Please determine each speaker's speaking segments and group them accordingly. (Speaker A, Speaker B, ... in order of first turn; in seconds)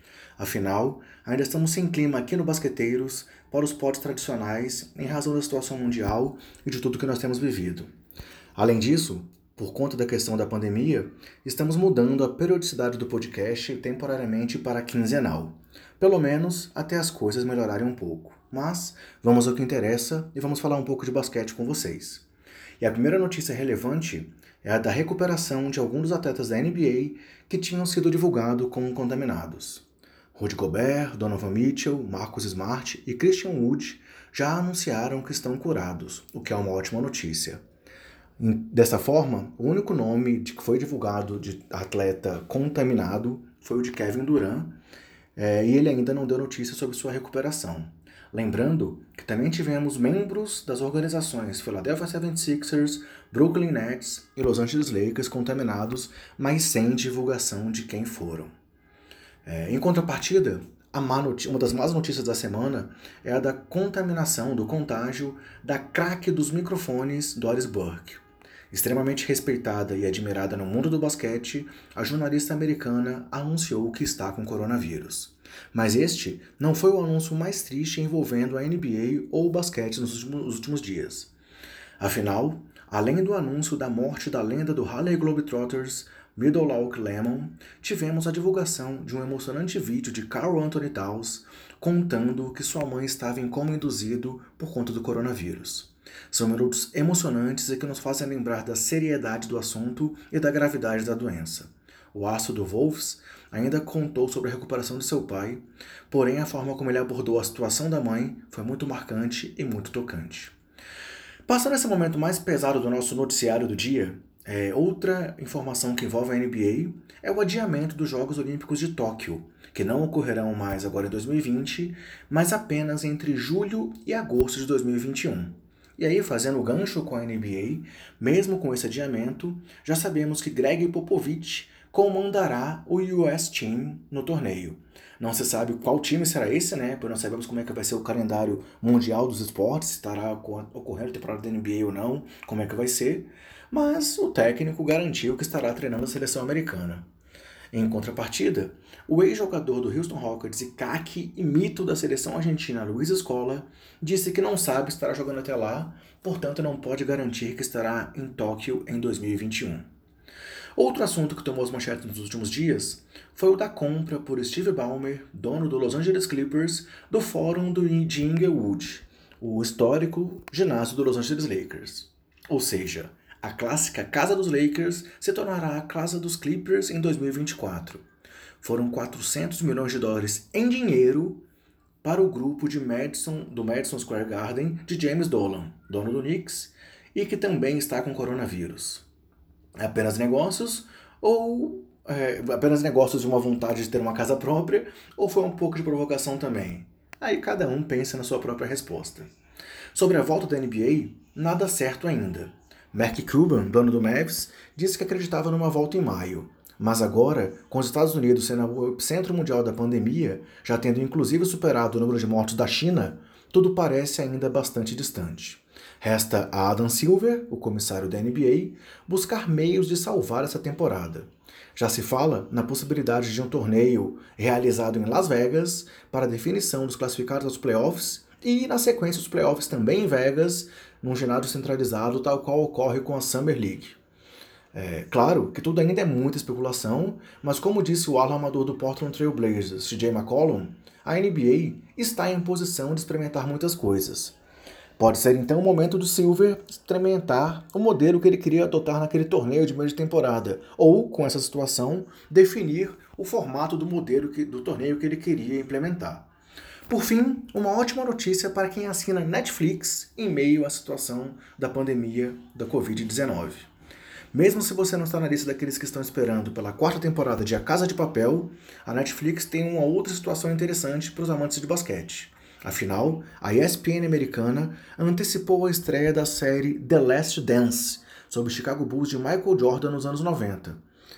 Speaker A: 0.4-7.9, 8.5-22.2, 22.8-37.6, 38.4-44.8, 45.4-58.5, 59.4-81.3, 82.0-110.5, 111.5-147.1, 147.7-159.8, 160.8-178.0, 178.6-181.4, 182.0-189.0, 189.8-199.3, 199.9-234.0, 234.7-244.3, 245.0-256.3, 256.9-263.7, 264.3-280.8